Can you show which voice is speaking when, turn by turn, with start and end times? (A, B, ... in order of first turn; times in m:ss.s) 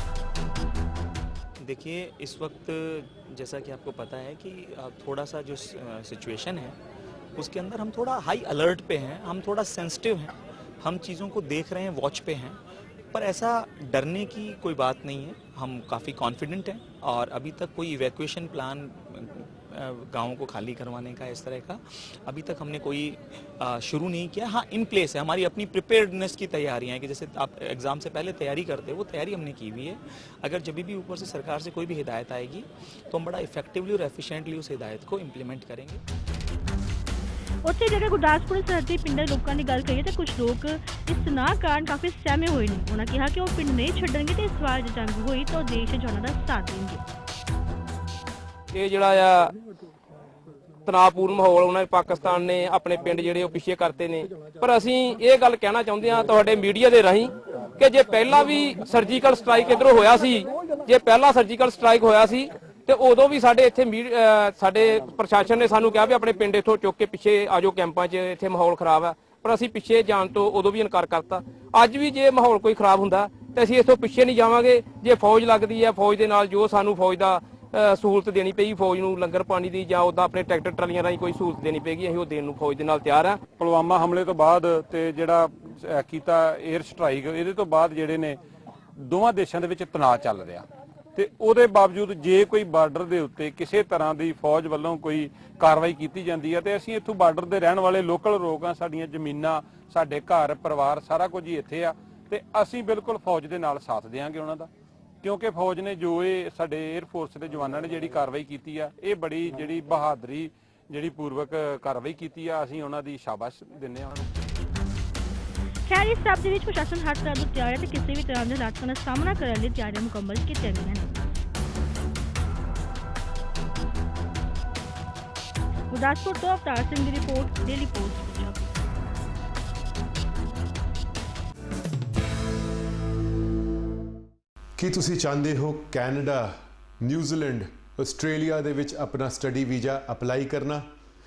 0:01.6-0:06.8 A
0:07.3-0:12.6 A
0:13.1-0:36.0 A
0:37.6-0:47.0 B
0:48.7-0:49.5 C
0:50.8-1:23.4 C
1:23.6-1:28.4 D
1:29.0-1:44.7 D
1:45.2-1:54.3 D
1:55.9-2:01.2 B
2:05.9-2:08.6 B
2:14.8-2:16.5 E
2:17.0-2:20.8 E